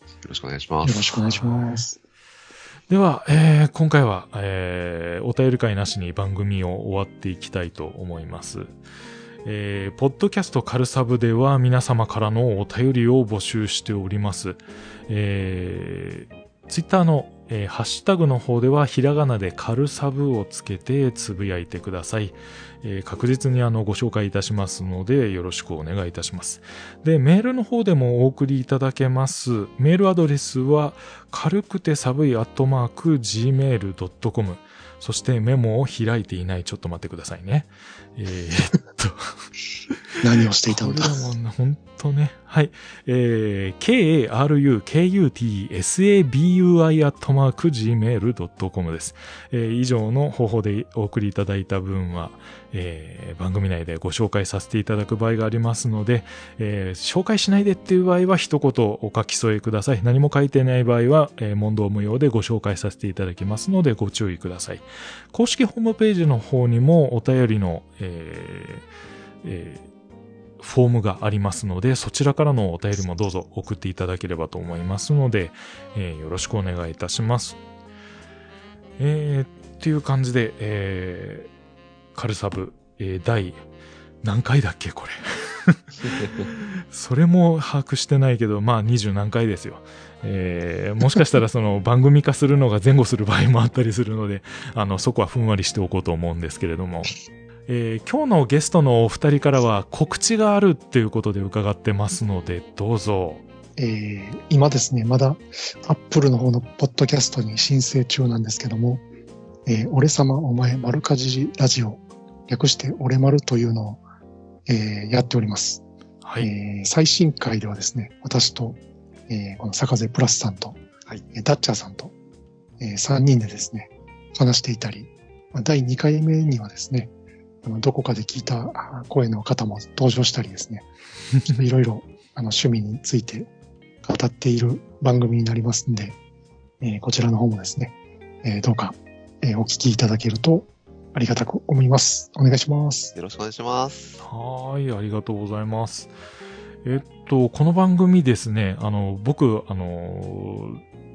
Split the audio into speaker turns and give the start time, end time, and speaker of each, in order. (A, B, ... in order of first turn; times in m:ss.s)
0:00.2-0:01.2 A
0:00.8-0:02.0 B
0:01.2-0:01.8 C
0:02.9-0:08.8 C
0:09.4-0:39.3 C
0:40.2-0:41.3 B
0:40.6-1:08.8 C
1:09.4-1:09.9 C
1:10.6-1:17.6 C
1:19.0-1:21.5 C
1:22.1-1:23.6 C
1:24.2-1:37.2 C
1:37.7-1:43.4 C
1:43.8-1:49.0 B
1:49.6-1:54.0 B
1:54.6-1:55.8 B
1:56.2-1:56.5 C
1:56.4-2:00.8 B
2:01.3-2:02.1 B
2:02.8-2:07.1 B
2:07.6-2:10.9 B
2:11.4-2:13.5 B
2:14.0-2:16.2 B
2:16.8-2:23.1 B
2:23.1-2:24.2 A
2:24.2-2:26.1 C
2:26.8-2:30.8 C